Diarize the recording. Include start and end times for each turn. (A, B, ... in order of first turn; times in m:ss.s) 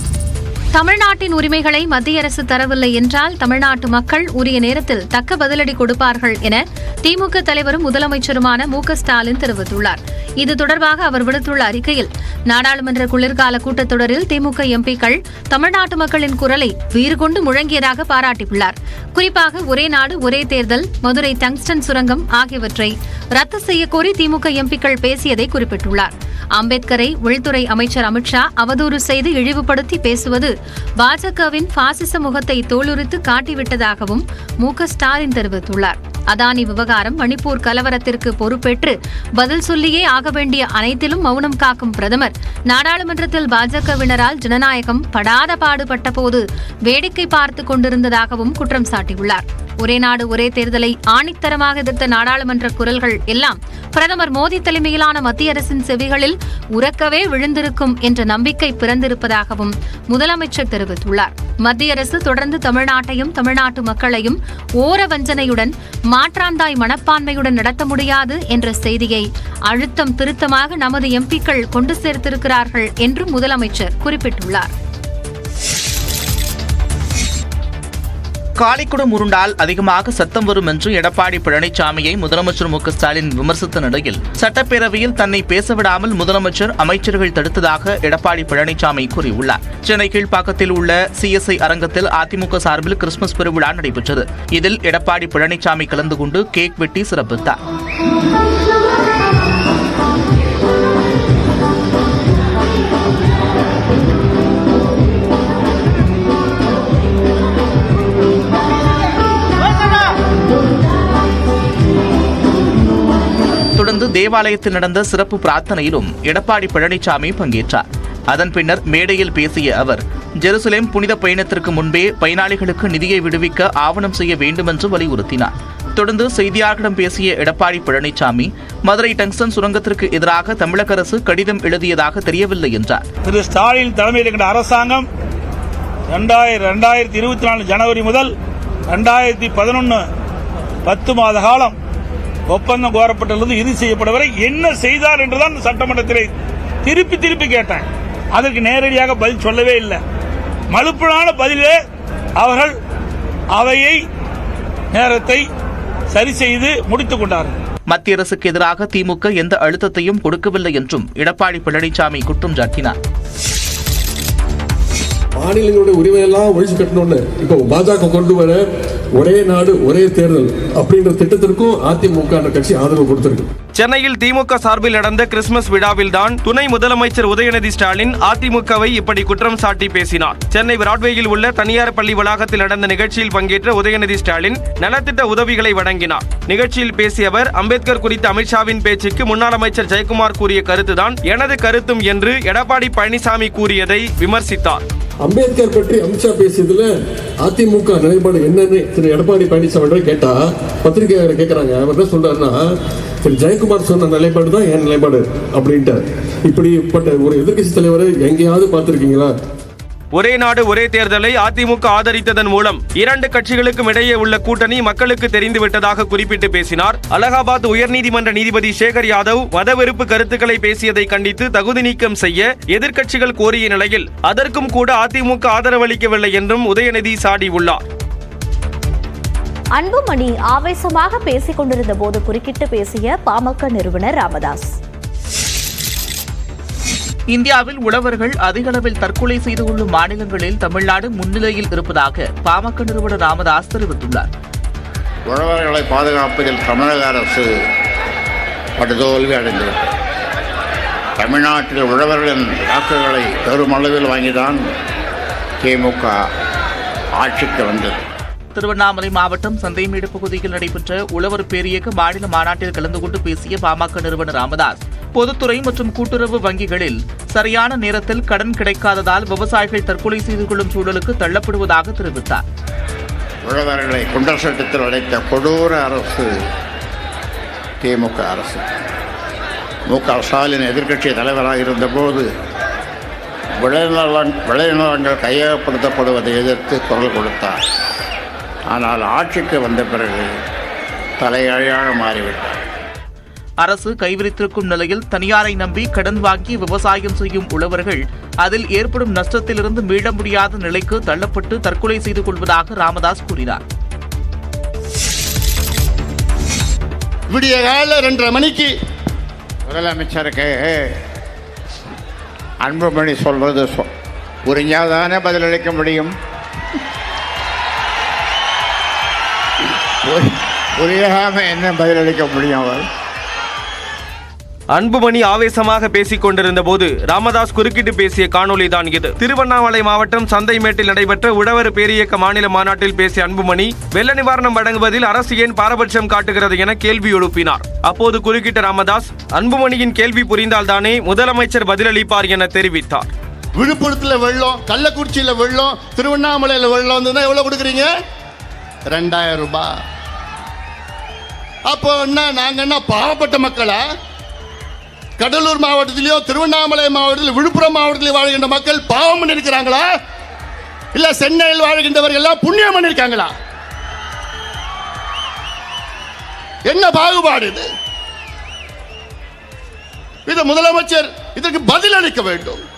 0:00.7-1:14.7 A
1:18.6-1:37.6 B
1:53.8-2:13.0 B
2:13.3-2:15.1 C
2:16.1-2:18.3 C
2:18.9-2:20.0 C
2:20.8-2:21.8 C
2:22.5-2:26.3 C
2:26.8-2:30.0 C
2:30.7-2:31.8 C
2:32.4-2:32.8 C
2:33.6-2:34.0 C
2:34.9-2:35.5 C
2:36.1-2:37.6 C
2:37.9-2:43.0 B
2:45.4-2:53.5 D
2:53.8-3:14.8 E
3:15.2-3:29.3 D
3:30.1-3:47.8 E
3:49.8-3:54.8 F
3:57.3-4:04.3 B
4:05.3-4:07.5 G
4:08.8-4:09.9 G
4:11.2-4:14.6 G
4:15.6-4:16.2 G
4:17.2-4:18.1 G
4:18.6-4:32.4 B
4:33.4-4:36.4 G
4:37.8-4:38.7 G
4:39.9-4:42.3 G
4:43.6-4:47.6 G
4:48.7-4:50.4 G
4:51.2-4:52.6 G
4:53.6-5:03.6 B
5:07.3-5:08.8 H
5:09.7-5:11.0 G
5:12.6-5:13.9 G
5:14.4-5:16.1 G
5:20.0-5:22.9 G
5:24.7-5:43.1 E
5:43.6-5:47.9 H
5:48.9-5:49.8 H
5:51.7-5:53.8 H
5:55.2-5:59.9 H
6:00.9-6:03.3 H
6:06.6-6:07.7 H
6:10.3-6:12.6 H